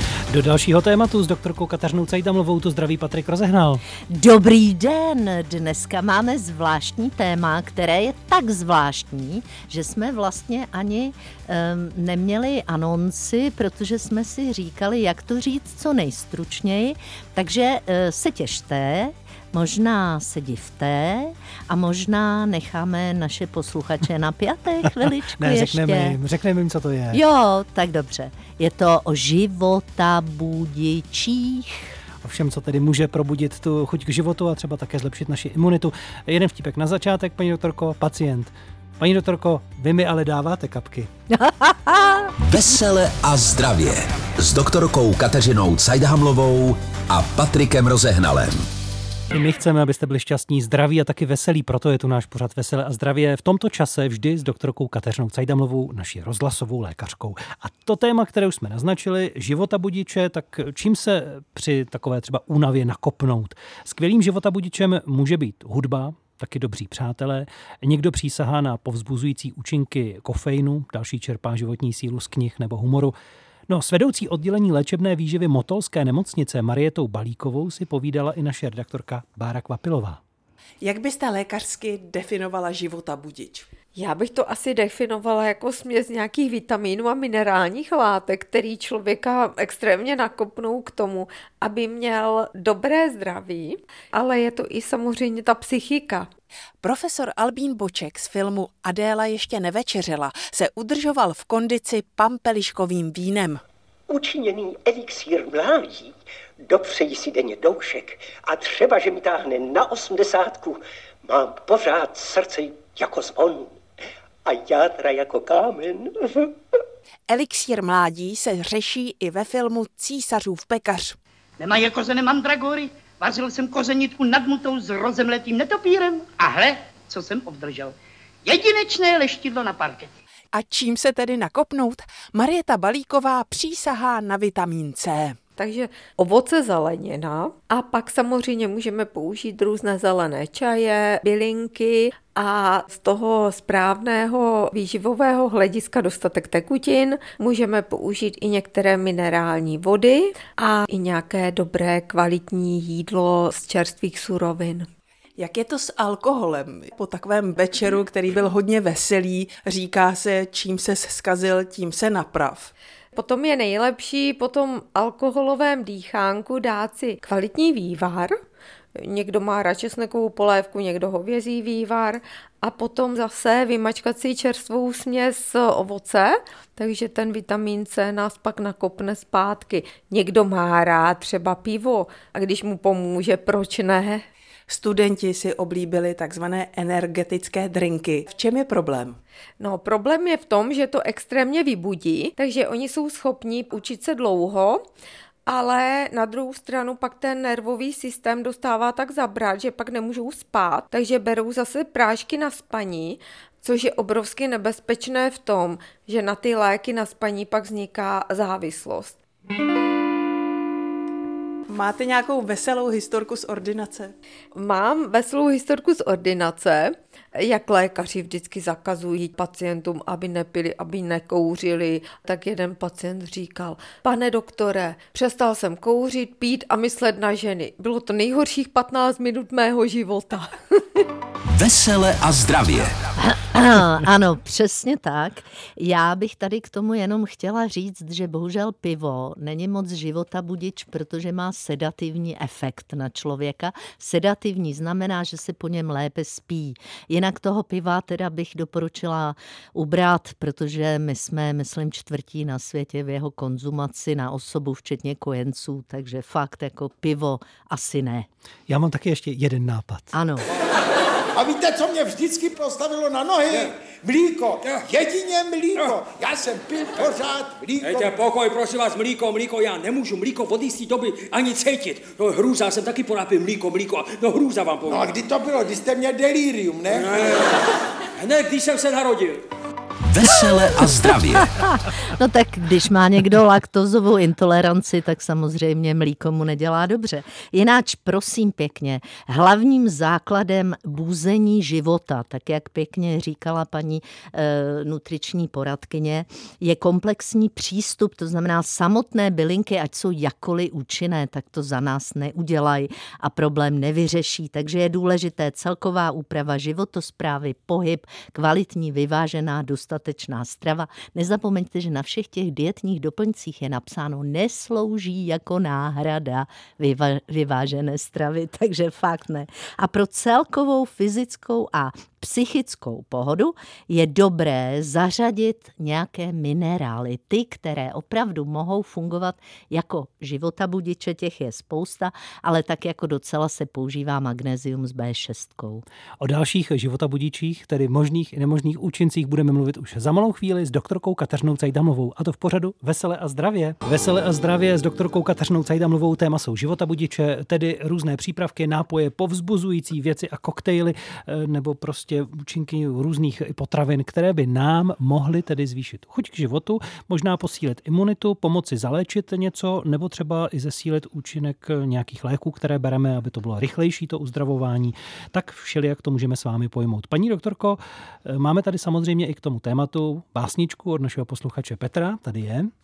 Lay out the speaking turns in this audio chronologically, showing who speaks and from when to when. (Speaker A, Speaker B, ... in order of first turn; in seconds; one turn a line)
Speaker A: 0.3-3.8
Speaker B: 4.0-26.2
Speaker A: 25.4-27.2
Speaker B: 27.1-31.9
Speaker A: 32.2-41.1
Speaker B: 41.4-42.3
Speaker C: 42.4-48.7
Speaker A: 49.3-73.1
Speaker A: 73.7-80.2
Speaker D: 80.8-83.7
Speaker E: 84.0-96.3
Speaker D: 96.8-103.6
Speaker F: 104.1-106.1
Speaker F: 106.7-113.8
Speaker F: 114.4-116.6
Speaker D: 117.3-121.2
Speaker G: 121.6-127.9
Speaker G: 128.4-130.1
Speaker D: 130.5-135.4
Speaker E: 135.6-154.9
Speaker D: 155.4-162.7
Speaker E: 163.1-168.4
Speaker E: 168.9-184.2
Speaker D: 184.7-189.2
Speaker E: 189.6-194.8
Speaker E: 195.5-209.2
Speaker D: 211.7-214.1
Speaker E: 214.5-230.5
Speaker C: 231.5-232.9
Speaker B: 233.2-258.3
Speaker A: 258.7-260.1
Speaker B: 260.1-260.5
Speaker H: 261.3-268.3
Speaker I: 264.6-264.9
Speaker I: 265.7-266.0
Speaker I: 267.8-275.1
Speaker H: 274.9-277.1
Speaker I: 276.9-277.6
Speaker I: 278.2-279.4
Speaker C: 280.1-281.5
Speaker B: 281.4-335.8
Speaker A: 336.2-372.7